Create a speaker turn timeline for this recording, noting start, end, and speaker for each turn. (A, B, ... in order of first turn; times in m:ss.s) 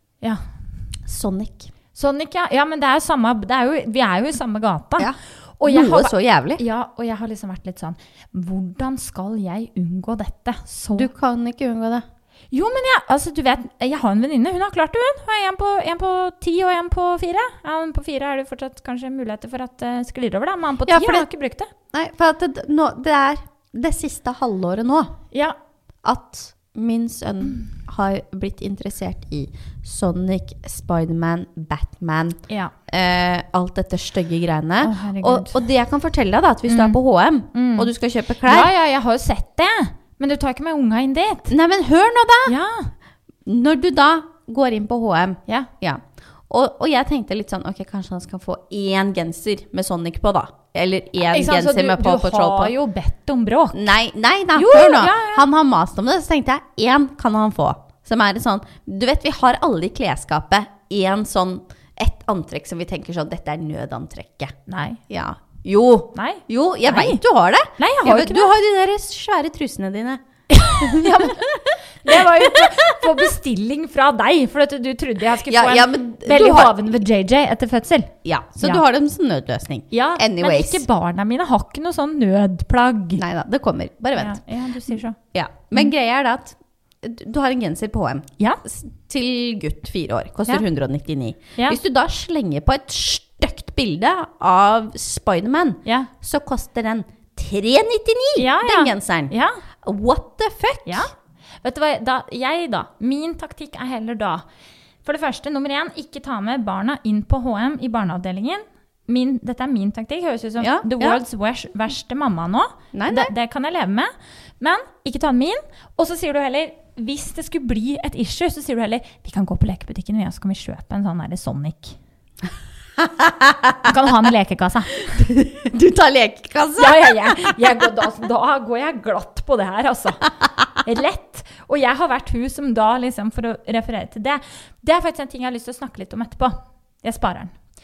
0:01.0-0:01.7 A
0:01.9-0:11.1 B
0:05.0-0:06.6 A
0:10.9-0:12.0 A
0:12.5-0:21.7 B
0:20.8-0:21.3 A
0:21.9-0:25.2 A
0:26.0-0:38.7 A
0:34.8-0:35.6 B
0:36.7-0:37.0 B
0:37.5-0:37.9 B
0:38.4-0:41.5 B
0:41.5-0:42.5 A
0:42.4-0:42.9 B
0:43.4-0:52.7 A
0:51.3-0:53.9 B
0:53.7-1:04.6 A
0:54.5-0:55.4 B
1:04.7-1:05.0 B
1:05.1-1:13.0 A
1:06.1-1:07.2 B
1:07.8-1:08.5 B
1:10.5-1:18.8 B
1:15.5-1:17.0 A
1:18.2-1:20.8 A
1:19.9-1:23.2 B
1:23.2-1:24.4 A
1:24.2-1:25.2 B
1:25.3-1:41.1 A
1:35.8-1:36.1 B
1:38.4-1:39.6 B
1:41.6-1:44.4 B
1:45.0-2:02.0 B
1:50.6-1:51.2 A
1:52.9-1:53.3 A
2:03.0-2:03.9 A
2:03.8-2:05.0 B
2:05.0-2:07.6 A
2:06.8-2:10.2 B
2:10.8-2:17.5 B